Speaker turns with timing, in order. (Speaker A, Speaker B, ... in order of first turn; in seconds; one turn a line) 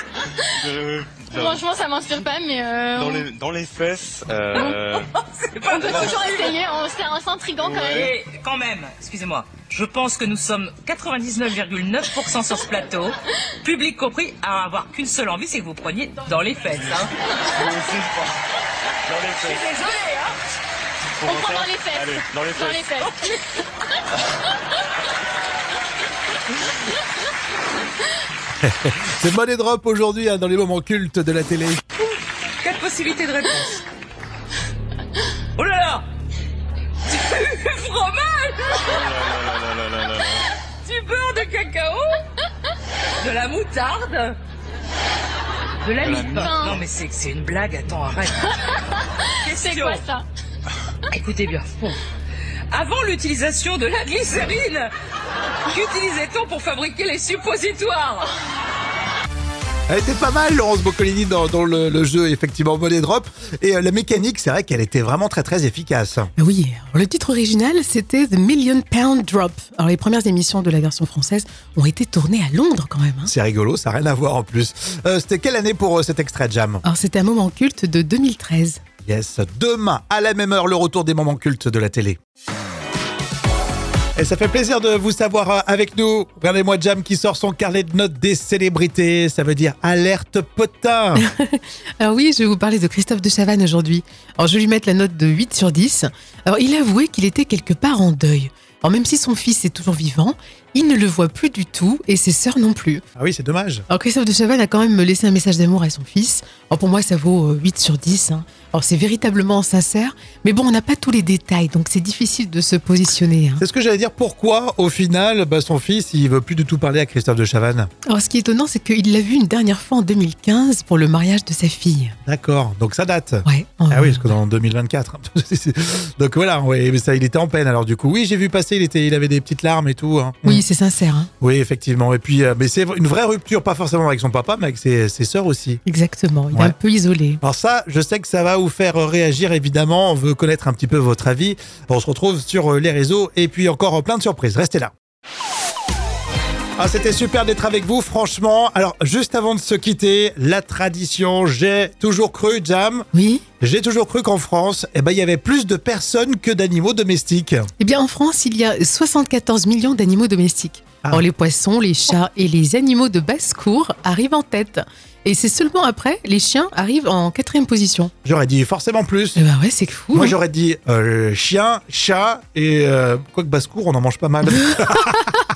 Speaker A: 0.6-1.6
Speaker B: 1.3-3.3
Speaker A: 2.9-5.1
Speaker C: 5.5-6.5
Speaker B: 5.8-8.0
Speaker A: 7.6-8.1
Speaker C: 8.0-17.1
Speaker A: 16.7-17.0
Speaker A: 17.5-18.4
Speaker A: 19.1-19.7
Speaker C: 19.4-20.1
Speaker A: 21.2-22.9
Speaker B: 21.2-23.4
Speaker D: 28.6-31.8
Speaker C: 32.6-33.8
Speaker C: 35.6-36.0
Speaker C: 37.0-38.9
Speaker A: 38.8-40.4
Speaker C: 40.8-42.2
Speaker C: 43.2-44.4
Speaker C: 45.8-48.5
Speaker A: 46.0-46.8
Speaker B: 46.3-46.8
Speaker C: 49.4-50.1
Speaker B: 49.5-50.2
Speaker C: 51.1-52.0
Speaker C: 52.7-54.9
Speaker C: 55.7-58.3
Speaker D: 59.9-66.3
Speaker E: 66.4-73.3
Speaker D: 73.2-76.8
Speaker E: 76.8-78.8
Speaker D: 79.0-82.2
Speaker D: 84.2-91.2
Speaker E: 91.2-103.0
Speaker D: 103.2-103.8
Speaker E: 103.9-113.6
Speaker D: 113.6-117.9
Speaker E: 118.1-122.2
Speaker D: 122.2-130.6
Speaker E: 123.4-124.3
Speaker E: 130.4-131.3
Speaker D: 131.4-135.8
Speaker E: 135.8-137.4
Speaker D: 137.4-144.9
Speaker D: 146.8-153.1
Speaker E: 153.1-153.4
Speaker D: 153.6-157.7
Speaker E: 157.8-168.1
Speaker D: 168.2-169.4
Speaker E: 169.3-170.3
Speaker D: 170.1-175.2
Speaker E: 174.7-175.2